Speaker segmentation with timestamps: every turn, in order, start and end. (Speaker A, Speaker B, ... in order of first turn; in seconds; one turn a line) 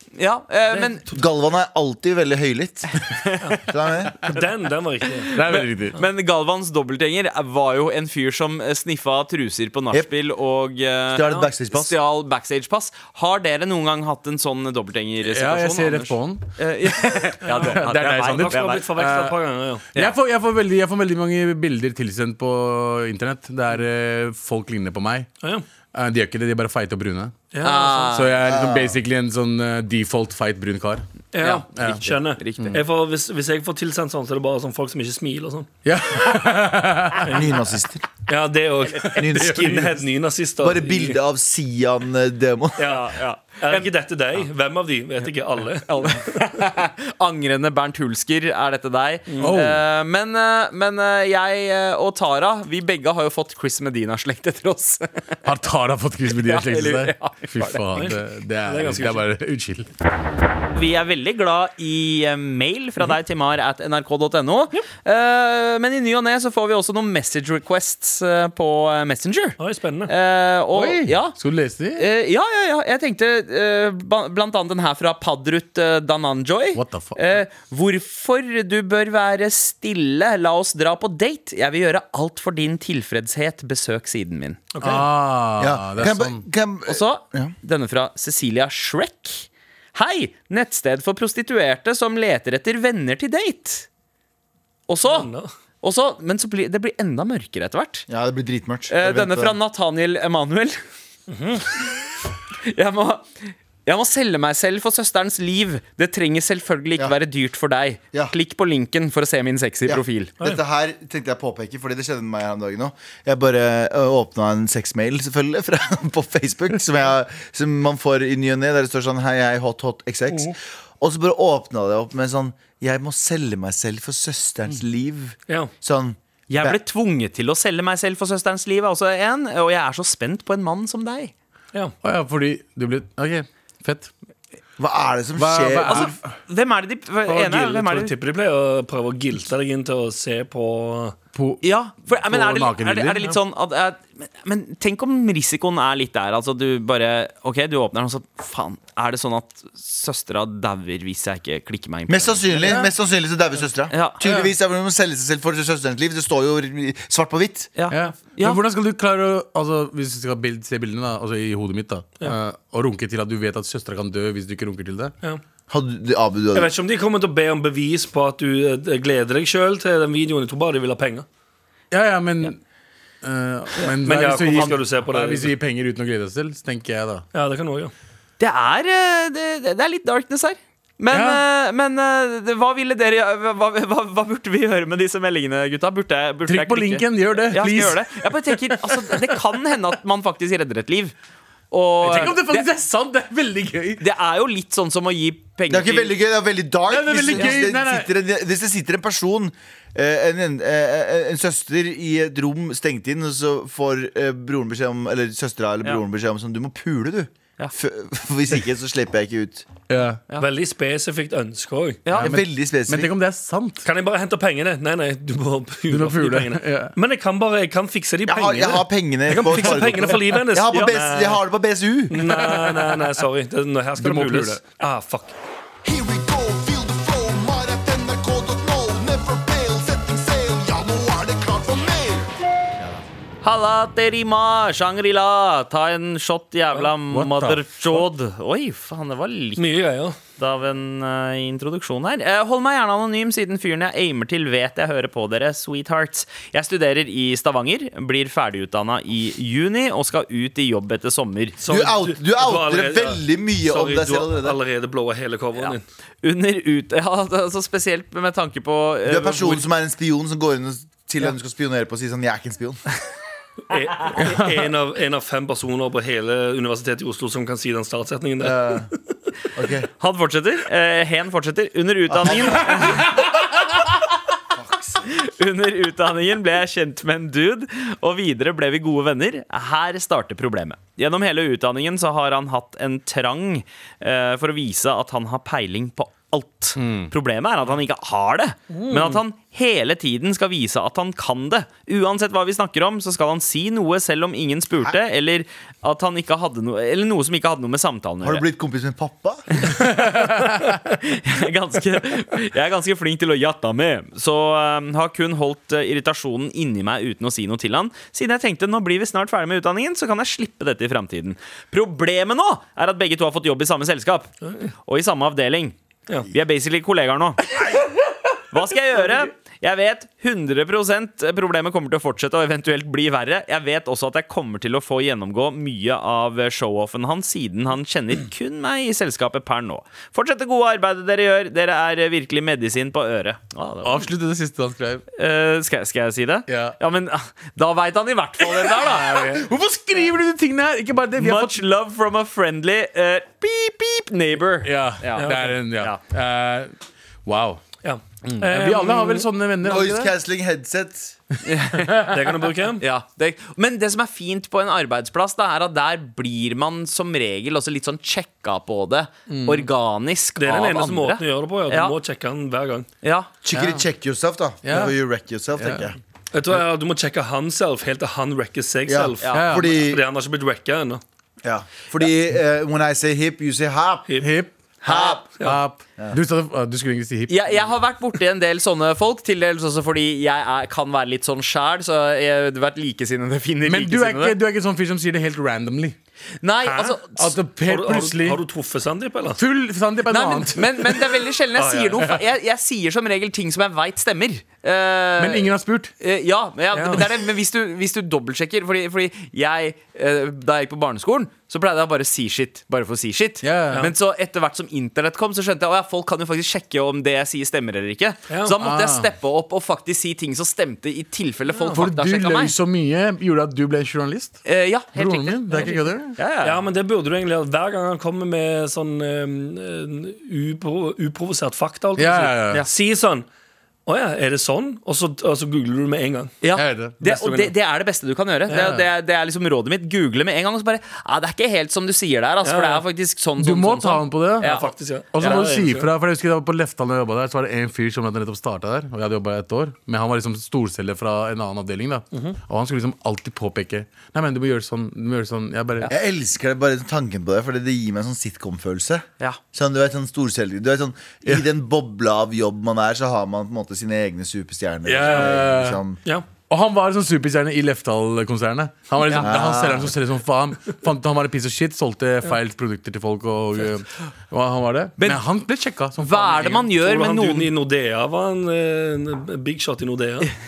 Speaker A: 0.2-1.0
Speaker B: 0.7-1.2
Speaker C: 1.1-3.0
Speaker A: 3.1-3.5
Speaker C: 3.6-4.2
Speaker B: 4.2-5.3
Speaker A: 5.2-18.9
Speaker D: 5.3-6.0
Speaker C: 11.1-12.0
Speaker D: 15.2-19.4
Speaker B: 17.4-19.8
Speaker D: 19.9-25.3
Speaker D: 25.9-27.4
Speaker B: 27.5-28.1
Speaker A: 27.6-28.4
Speaker D: 28.1-31.0
Speaker C: 28.4-29.0
Speaker B: 31.3-35.7
Speaker A: 31.4-31.7
Speaker D: 31.8-32.0
Speaker A: 32.4-32.8
Speaker D: 35.8-37.3
Speaker B: 37.2-37.5
Speaker C: 37.2-38.1
Speaker B: 38.3-41.2
Speaker C: 39.1-40.0
Speaker D: 39.2-39.8
Speaker C: 40.6-43.0
Speaker B: 42.8-43.1
Speaker A: 42.8-43.9
Speaker B: 43.6-46.2
Speaker A: 45.9-55.4
Speaker B: 49.3-49.5
Speaker D: 49.4-49.8
Speaker D: 55.4-59.9
Speaker A: 56.4-58.0
Speaker B: 57.9-59.2
Speaker A: 60.7-71.3
Speaker B: 69.6-70.1
Speaker D: 70.7-72.0
Speaker A: 72.0-84.6
Speaker D: 76.7-77.2
Speaker B: 84.7-85.1
Speaker D: 84.8-86.4
Speaker C: 85.6-87.5
Speaker A: 86.9-93.9
Speaker A: 94.9-95.3
Speaker B: 95.0-95.5
Speaker A: 95.8-98.1
Speaker C: 98.1-99.5
Speaker A: 98.9-100.8
Speaker B: 101.3-101.7
Speaker A: 102.6-110.3
Speaker C: 109.8-126.8
Speaker A: 126.5-131.3
Speaker D: 132.0-134.1
Speaker C: 134.8-136.1
Speaker D: 135.3-136.3
Speaker A: 135.8-138.1
Speaker B: 137.3-141.2
Speaker D: 141.3-143.3
Speaker A: 141.6-152.7
Speaker C: 152.1-157.7
Speaker D: 152.6-152.9
Speaker A: 153.9-154.2
Speaker A: 157.8-158.6
Speaker D: 157.9-165.1
Speaker C: 165.7-166.7
Speaker B: 166.5-171.2
Speaker D: 171.9-172.6
Speaker D: 173.2-177.2
Speaker B: 173.8-175.5
Speaker B: 177.3-177.9
Speaker A: 178.4-191.1
Speaker D: 181.1-181.4
Speaker D: 186.5-188.8
Speaker A: 191.7-192.7
Speaker D: 192.0-194.0
Speaker B: 192.1-192.3
Speaker A: 194.0-196.2
Speaker C: 195.7-209.7
Speaker D: 196.9-198.1
Speaker D: 209.9-210.2
Speaker B: 210.3-212.0
Speaker A: 212.0-212.4
Speaker D: 212.1-213.8
Speaker C: 212.2-213.1
Speaker B: 213.8-221.4
Speaker D: 215.9-216.9
Speaker C: 218.2-222.3
Speaker B: 222.1-225.3
Speaker D: 222.2-223.1
Speaker D: 224.0-224.6
Speaker E: 225.8-232.3
Speaker A: 233.4-239.6
Speaker D: 237.1-238.0
Speaker B: 239.6-240.2
Speaker A: 240.4-251.6
Speaker B: 251.6-255.8
Speaker C: 251.7-254.6
Speaker A: 255.6-259.6
Speaker C: 259.0-262.8
Speaker B: 263.7-268.8
Speaker D: 264.2-264.6
Speaker C: 268.4-268.9
Speaker C: 269.5-269.9
Speaker A: 270.0-273.3
Speaker C: 272.1-273.1
Speaker C: 274.5-275.1
Speaker A: 275.1-298.4
Speaker D: 286.8-287.1
Speaker B: 288.7-289.2
Speaker C: 298.2-299.7
Speaker A: 299.6-314.3
Speaker B: 314.4-314.7
Speaker A: 314.9-315.7
Speaker A: 316.3-317.5
Speaker A: 318.5-334.1
Speaker D: 333.8-335.0
Speaker A: 335.1-339.3
Speaker D: 336.5-336.8
Speaker D: 338.4-341.6
Speaker A: 341.2-346.0
Speaker D: 344.6-346.7
Speaker B: 345.2-345.5
Speaker D: 347.2-347.6
Speaker B: 347.8-349.3
Speaker D: 348.4-350.1
Speaker C: 349.6-351.2
Speaker A: 351.4-352.1
Speaker B: 352.1-352.8
Speaker A: 352.8-361.9
Speaker D: 359.3-359.6
Speaker B: 360.4-362.9
Speaker A: 363.0-363.3
Speaker C: 363.4-366.0
Speaker D: 363.5-363.8
Speaker D: 364.6-364.9
Speaker D: 365.6-365.9
Speaker B: 366.3-371.0
Speaker C: 368.9-370.0
Speaker D: 369.3-369.7
Speaker C: 371.4-374.1
Speaker D: 374.2-374.5
Speaker A: 374.8-375.2
Speaker C: 374.8-375.2
Speaker D: 375.4-377.6
Speaker A: 377.3-384.4
Speaker D: 383.6-385.9
Speaker A: 386.4-387.3
Speaker B: 386.6-387.0
Speaker D: 387.1-388.4
Speaker B: 387.7-389.4
Speaker D: 389.4-390.8
Speaker A: 390.1-395.5
Speaker B: 391.5-392.1
Speaker D: 395.2-395.9
Speaker A: 396.0-412.5
Speaker B: 396.7-397.0
Speaker D: 403.4-403.9
Speaker B: 408.3-408.5
Speaker D: 408.6-409.1
Speaker B: 411.5-411.8
Speaker D: 411.7-414.4
Speaker A: 414.4-416.6
Speaker D: 414.9-416.1
Speaker B: 416.4-423.2
Speaker D: 422.0-422.6
Speaker B: 423.9-426.4
Speaker A: 426.4-435.5
Speaker D: 426.6-426.9
Speaker B: 427.0-427.5
Speaker B: 428.5-428.8
Speaker B: 432.4-432.8
Speaker D: 433.4-434.6
Speaker B: 434.4-435.9
Speaker D: 435.1-445.9
Speaker C: 445.9-456.0
Speaker D: 454.9-455.8
Speaker B: 455.0-455.3
Speaker D: 456.5-466.5
Speaker A: 459.0-459.3
Speaker C: 459.2-459.9
Speaker A: 465.0-465.2
Speaker A: 466.0-467.5
Speaker B: 466.2-470.3